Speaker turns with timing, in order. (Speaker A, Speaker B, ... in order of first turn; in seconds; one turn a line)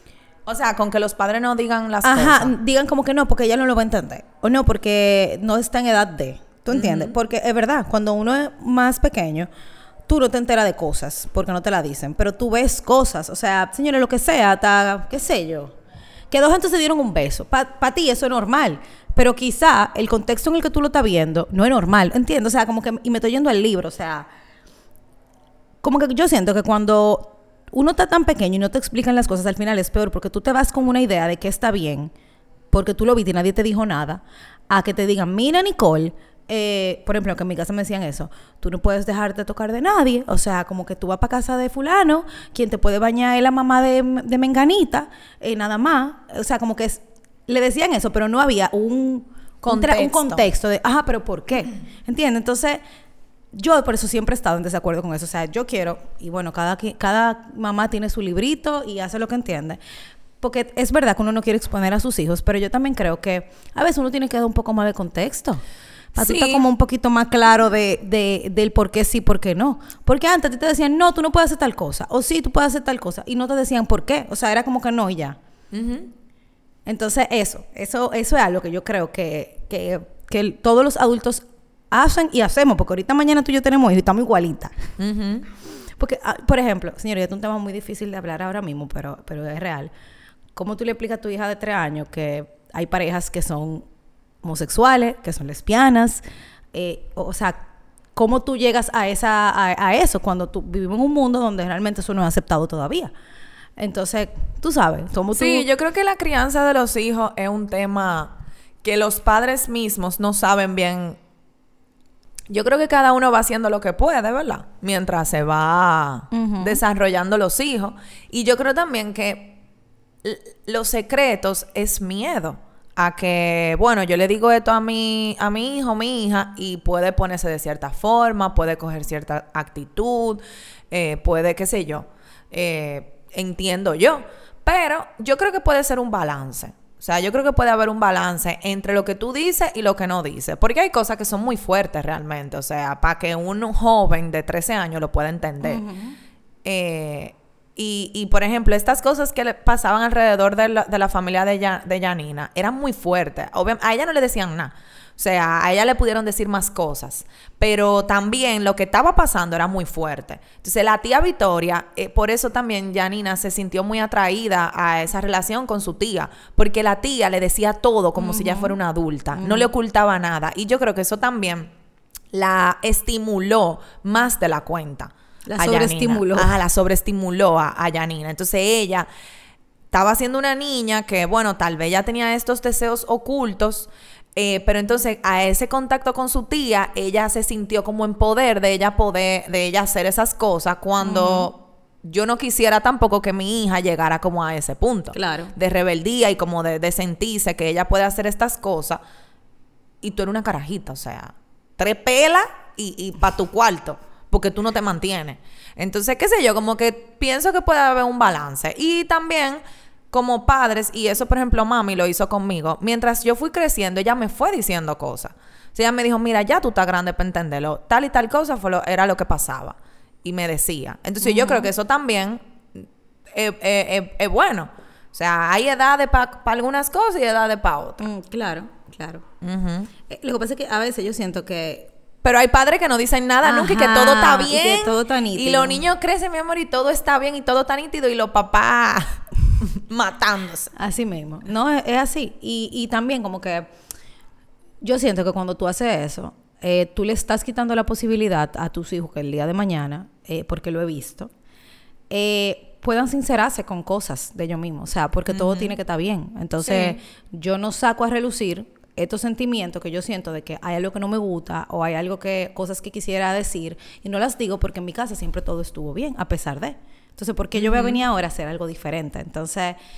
Speaker A: 0.5-2.5
Speaker B: 2.0-9.5
Speaker A: 6.7-7.1
Speaker B: 10.1-15.7
Speaker B: 16.3-24.3
Speaker B: 25.8-32.1
Speaker B: 32.7-52.8
Speaker A: 49.6-50.5
Speaker B: 53.5-59.8
Speaker B: 60.4-65.6
Speaker B: 66.2-75.4
Speaker A: 66.2-66.6
Speaker A: 75.7-76.1
Speaker B: 76.9-84.9
Speaker A: 85.0-85.5
Speaker B: 86.0-89.9
Speaker B: 90.6-93.9
Speaker B: 94.4-96.2
Speaker B: 96.7-103.1
Speaker B: 103.8-105.7
Speaker A: 105.4-111.2
Speaker A: 112.5-119.6
Speaker B: 116.3-116.8
Speaker A: 120.2-145.8
Speaker B: 145.6-146.2
Speaker A: 146.6-171.7
Speaker B: 168.2-168.8
Speaker B: 169.3-169.7
Speaker A: 172.3-179.1
Speaker B: 175.5-176.5
Speaker A: 179.9-199.0
Speaker B: 191.0-191.5
Speaker B: 195.1-195.5
Speaker A: 200.0-209.6
Speaker A: 210.1-228.1
Speaker B: 221.2-221.7
Speaker B: 228.0-229.2
Speaker A: 229.4-229.9
Speaker B: 230.1-231.9
Speaker A: 232.2-240.7
Speaker B: 233.4-235.8
Speaker B: 240.8-243.7
Speaker B: 244.8-251.3
Speaker B: 252.1-269.8
Speaker A: 255.3-255.8
Speaker A: 256.6-257.0
Speaker A: 267.6-268.0